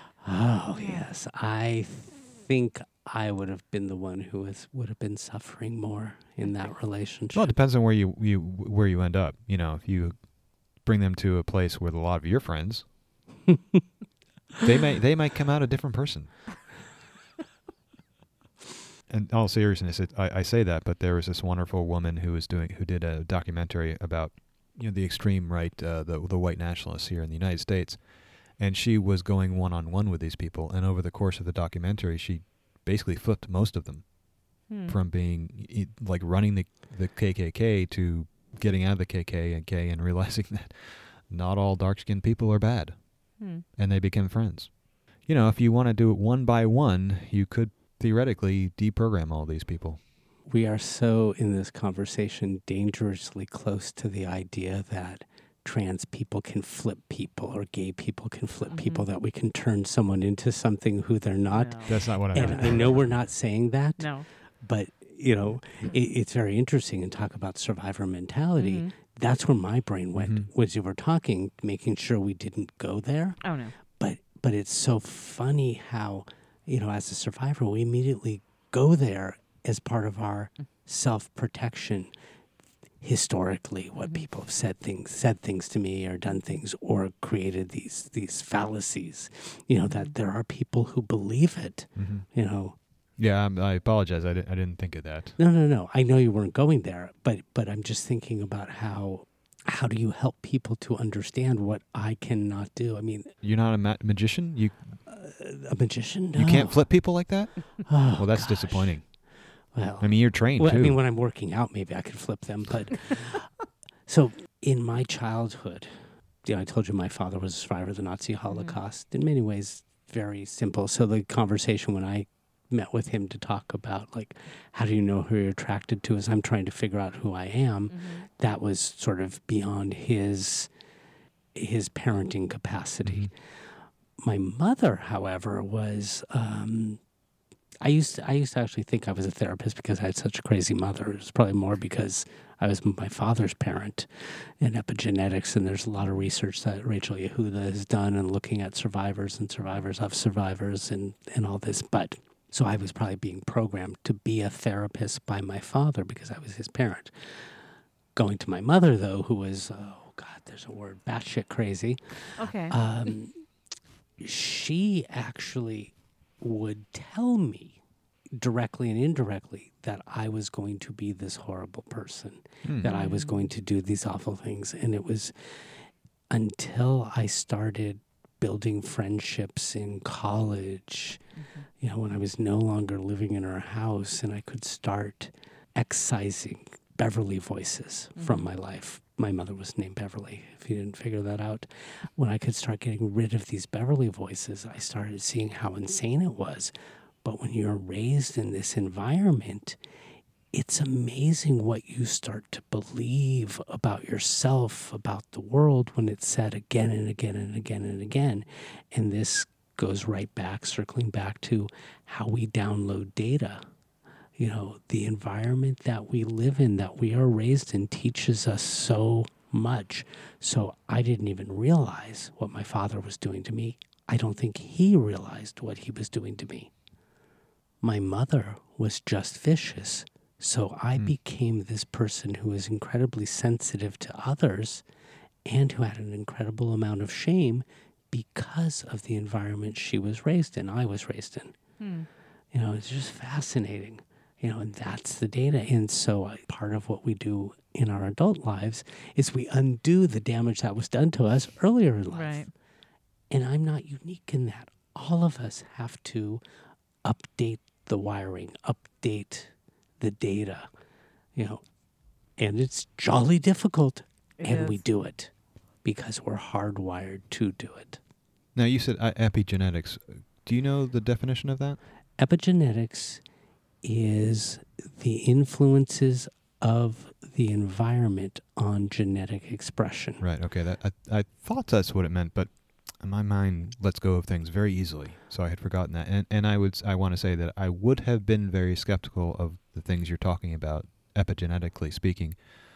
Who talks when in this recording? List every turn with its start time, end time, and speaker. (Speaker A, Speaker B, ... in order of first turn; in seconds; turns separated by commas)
Speaker A: 0.2-7.5, Speaker B: 0.7-1.1, Speaker C: 7.3-12.9, Speaker C: 14.6-16.6, Speaker C: 19.1-34.2, Speaker B: 34.7-35.0, Speaker C: 34.8-50.0, Speaker B: 43.4-43.6, Speaker A: 50.5-82.1, Speaker B: 58.7-59.0, Speaker B: 61.5-63.2, Speaker C: 61.9-63.0, Speaker B: 64.0-64.3, Speaker B: 68.6-68.9, Speaker C: 70.2-70.5, Speaker B: 73.4-73.7, Speaker A: 83.0-92.8, Speaker B: 84.0-84.3, Speaker B: 86.3-86.6, Speaker B: 89.8-90.1, Speaker C: 92.0-92.3, Speaker C: 93.2-95.4, Speaker A: 95.4-103.3, Speaker C: 103.4-105.0, Speaker A: 105.0-130.7, Speaker C: 106.3-109.1, Speaker C: 110.0-111.0, Speaker B: 118.5-118.8, Speaker B: 127.9-128.3, Speaker A: 131.6-133.7, Speaker C: 133.0-133.3, Speaker A: 134.2-137.0, Speaker A: 137.8-157.6, Speaker A: 158.1-163.4, Speaker B: 162.4-162.8, Speaker A: 164.2-167.8, Speaker A: 168.4-175.8, Speaker C: 172.6-172.9, Speaker B: 172.8-173.5, Speaker A: 176.3-181.2, Speaker B: 181.4-181.6, Speaker A: 181.8-199.8, Speaker B: 188.2-188.5, Speaker A: 200.5-213.6, Speaker A: 214.4-226.7, Speaker A: 227.8-234.8, Speaker A: 235.4-241.6, Speaker B: 241.8-242.1, Speaker A: 242.5-252.5, Speaker B: 252.1-252.5, Speaker A: 253.3-256.4, Speaker A: 257.0-260.7, Speaker A: 261.3-261.6, Speaker A: 262.4-265.3, Speaker B: 264.4-264.8, Speaker A: 265.8-268.0, Speaker C: 268.6-271.8, Speaker A: 272.2-273.2, Speaker A: 273.8-280.2, Speaker C: 280.2-292.5